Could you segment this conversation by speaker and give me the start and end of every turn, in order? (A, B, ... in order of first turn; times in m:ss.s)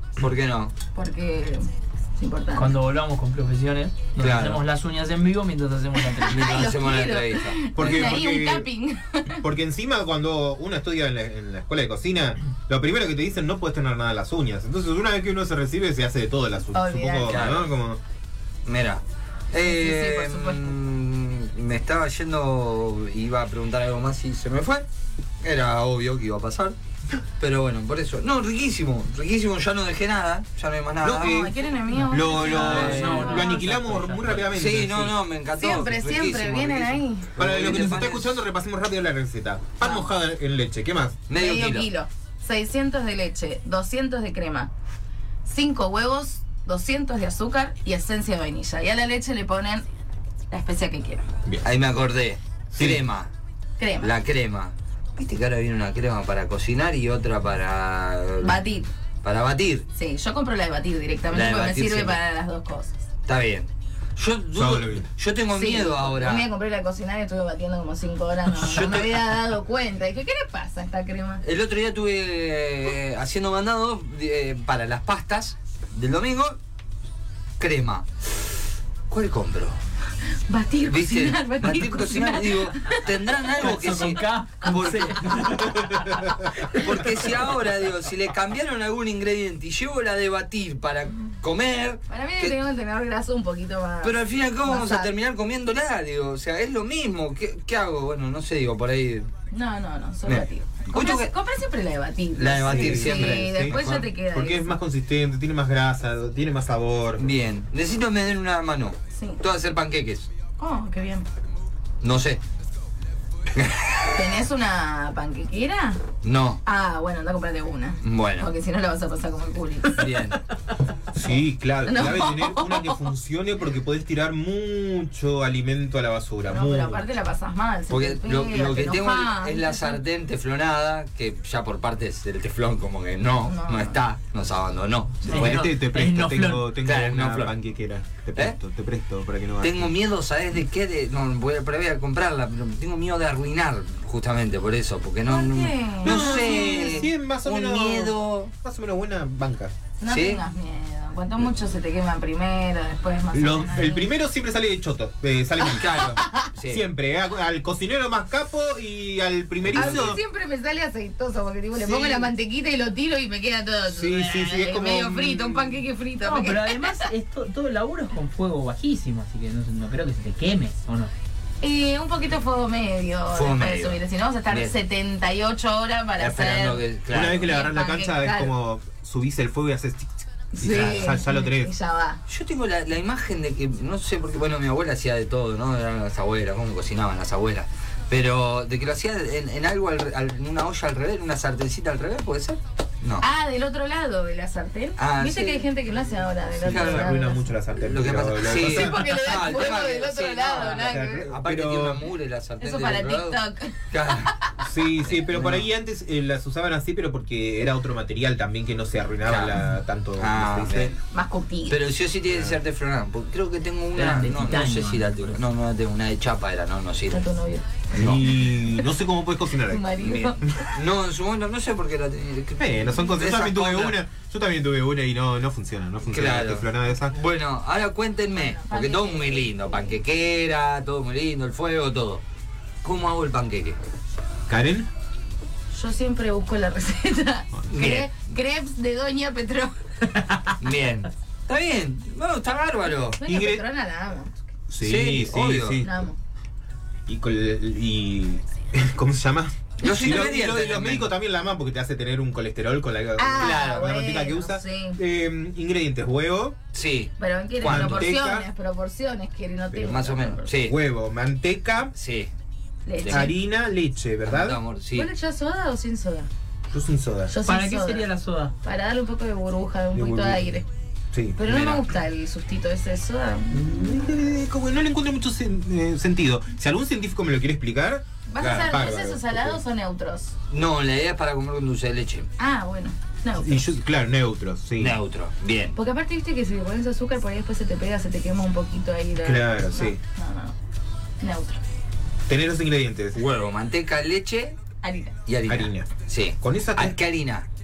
0:00.2-0:00.7 A
0:00.9-0:02.8 B
0:02.5-0:06.7 C
0:04.2-0:04.6 A
0:06.1-0:09.4 B
0:06.3-0:08.2 A
0:07.8-0:08.7 D
0:09.4-0:18.0 D
0:16.7-0:17.5 B
0:17.2-0:17.7 A
0:18.7-0:24.9 A
0:19.6-0:20.8 B
0:25.4-0:26.8 A
0:27.4-0:31.5 A
0:31.0-0:35.2 D
0:31.2-0:33.6 B
0:31.9-0:34.5 C
0:32.7-0:33.2 A
0:34.5-0:38.4 A
0:35.6-0:37.3 B
0:37.4-0:41.2 D
0:39.8-0:40.1 B
0:41.3-0:41.9 A
0:41.3-0:44.7 B
0:45.4-0:49.9 B
0:50.5-0:51.3 B
0:51.6-0:53.3 A
0:52.7-0:53.0 D
0:53.8-0:54.1 B
0:54.0-0:58.6 A
0:58.4-0:58.9 B
0:59.2-0:59.9 A
1:00.0-1:03.0 B
1:01.3-1:02.2 A
1:03.3-1:06.5 A
1:04.6-1:05.1 D
1:05.5-1:11.4 B
1:08.6-1:09.2 A
1:11.4-1:16.6 A
1:17.6-1:18.5 A
1:19.1-1:19.8 A
1:20.5-1:23.1 B
1:20.8-1:25.7 A
1:23.6-1:27.1 C
1:25.7-1:26.1 D
1:26.7-1:32.6 A
1:32.1-1:35.1 B
1:34.0-1:39.3 A
1:39.5-1:44.8 B
1:40.3-1:41.3 A
1:42.4-1:43.8 A
1:42.6-1:47.3 D
1:47.2-1:50.3 A
1:49.2-1:49.4 B
1:50.6-1:51.3 B
1:52.0-1:52.4 A
1:53.5-1:54.2 A
1:54.1-1:56.0 B
1:56.2-1:56.6 A
1:56.6-2:00.2 B
1:58.0-1:58.5 A
2:00.0-2:00.4 A
2:01.1-2:07.1 D
2:01.2-2:03.0 B
2:06.5-2:10.0 B
2:07.9-2:15.6 A
2:13.5-2:14.0 B
2:15.2-2:16.7 C
2:15.2-2:19.9 D
2:16.8-2:17.6 A
2:19.6-2:28.5 A
2:25.3-2:27.0 B
2:26.0-2:29.7 D
2:30.0-2:34.1 B
2:30.1-2:30.4 A
2:33.3-2:40.2 D
2:35.7-2:36.8 A
2:35.8-2:36.4 B
2:39.7-2:40.1 A
2:39.8-2:47.0 B
2:41.7-2:42.3 D
2:43.9-2:45.8 D
2:46.2-2:51.1 C
2:51.6-2:56.8 B
2:53.3-2:54.7 A
2:56.2-2:57.6 A
2:57.1-3:01.7 D
2:57.4-2:58.5 B
3:00.6-3:02.2 B
3:00.7-3:01.1 A
3:02.3-3:13.3 A
3:13.2-3:17.5 B
3:15.0-3:15.7 A
3:16.5-3:19.2 D
3:16.6-3:17.1 A
3:17.8-3:24.3 A
3:18.4-3:21.3 B
3:20.6-3:22.1 D
3:22.6-3:24.5 B
3:24.6-3:30.9 D
3:25.1-3:25.7 A
3:29.2-3:29.6 A
3:30.2-3:31.0 A
3:31.1-3:31.8 B
3:31.7-3:37.2 A
3:32.3-3:32.6 D
3:34.0-3:35.4 C
3:37.1-3:37.8 B
3:37.9-3:38.2 A
3:37.9-3:40.0 D
3:39.7-3:40.7 B
3:40.0-3:44.0 A
3:42.6-3:47.2 D
3:46.1-3:52.2 A
3:48.3-3:49.8 B
3:52.8-3:53.8 A
3:54.5-3:54.9 D
3:55.7-3:59.7 B
3:57.7-3:58.1 A
4:00.6-4:03.2 A
4:03.2-4:04.4 B
4:03.2-4:03.6 D
4:04.7-4:06.1 D
4:04.8-4:05.8 A
4:05.8-4:06.2 B
4:07.1-4:16.6 D
4:09.8-4:11.1 A
4:13.2-4:15.0 B
4:13.4-4:13.9 A
4:16.7-4:18.1 A
4:17.2-4:20.5 B
4:17.6-4:18.5 D
4:19.7-4:20.0 D
4:19.9-4:20.8 A
4:20.6-4:21.9 D
4:21.9-4:22.3 A
4:22.9-4:23.4 B
4:23.0-4:23.3 A
4:23.1-4:24.6 D
4:24.3-4:25.1 A
4:24.9-4:26.3 B
4:26.7-4:27.4 D
4:27.3-4:28.1 B
4:27.4-4:28.5 C
4:28.6-4:30.7 B
4:29.9-4:30.5 D
4:31.1-4:31.4 D
4:31.4-4:34.2 B
4:31.4-4:31.8 A
4:33.5-4:39.6 D
4:38.3-4:40.4 B
4:38.4-4:38.7 A
4:40.5-4:42.3 A
4:42.4-4:43.7 B
4:43.4-4:45.0 D
4:44.8-4:45.8 A
4:45.8-4:50.6 B
4:49.2-4:50.0 D
4:51.2-4:51.6 B
4:52.3-4:53.2 D
4:53.2-4:54.6 A
4:54.8-4:55.2 B
4:55.3-4:57.5 A
4:55.5-4:57.0 D